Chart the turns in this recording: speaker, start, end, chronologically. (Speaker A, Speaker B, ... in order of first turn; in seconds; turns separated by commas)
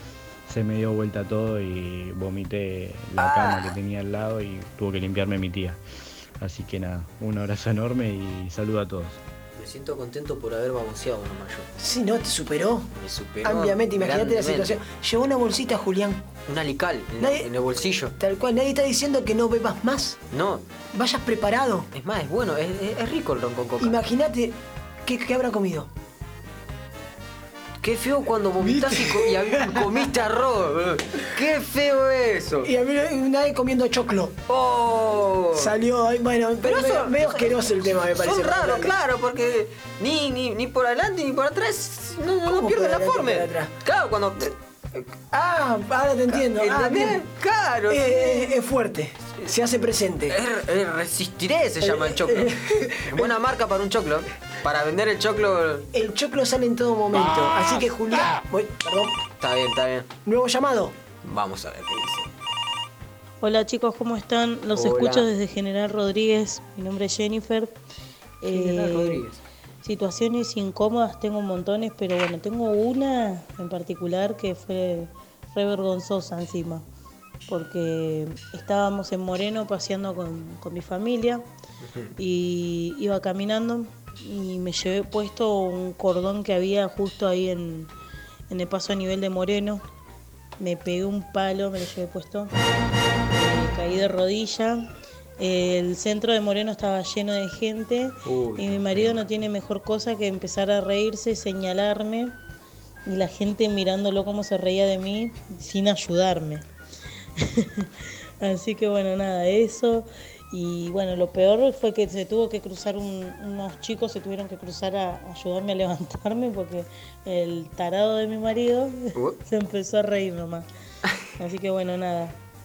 Speaker A: 0.4-5.8, Speaker B: 3.2-3.7, Speaker A: 6.4-9.2, Speaker B: 9.6-11.7, Speaker C: 11.8-12.9, Speaker B: 12.9-14.8, Speaker C: 13.4-16.2, Speaker B: 16.5-18.1, Speaker C: 17.2-17.5, Speaker C: 18.2-20.2, Speaker B: 20.3-20.6, Speaker C: 20.9-21.9, Speaker B: 21.9-24.0, Speaker C: 23.8-25.9, Speaker B: 27.8-32.7, Speaker C: 28.6-29.9, Speaker C: 32.6-34.3, Speaker B: 34.5-35.8, Speaker C: 35.5-38.9, Speaker B: 36.6-45.0, Speaker C: 42.5-43.7, Speaker C: 45.3-47.2, Speaker B: 46.3-48.6, Speaker C: 47.9-50.4, Speaker B: 50.3-52.5, Speaker C: 51.8-53.3, Speaker B: 53.1-55.9, Speaker C: 55.9-59.2, Speaker B: 59.4-60.1, Speaker C: 60.2-60.9, Speaker B: 61.2-62.3, Speaker D: 63.4-67.7, Speaker B: 64.7-65.3, Speaker D: 68.4-69.2, Speaker B: 68.5-69.4, Speaker D: 69.8-76.8, Speaker D: 77.5-81.4, Speaker B: 81.8-82.1, Speaker D: 82.2-87.9, Speaker D: 88.5-89.8, Speaker D: 90.6-92.5, Speaker D: 93.3-94.9, Speaker D: 95.4-102.3, Speaker B: 98.2-99.2, Speaker D: 103.0-106.6, Speaker D: 107.4-120.7, Speaker D: 121.3-122.3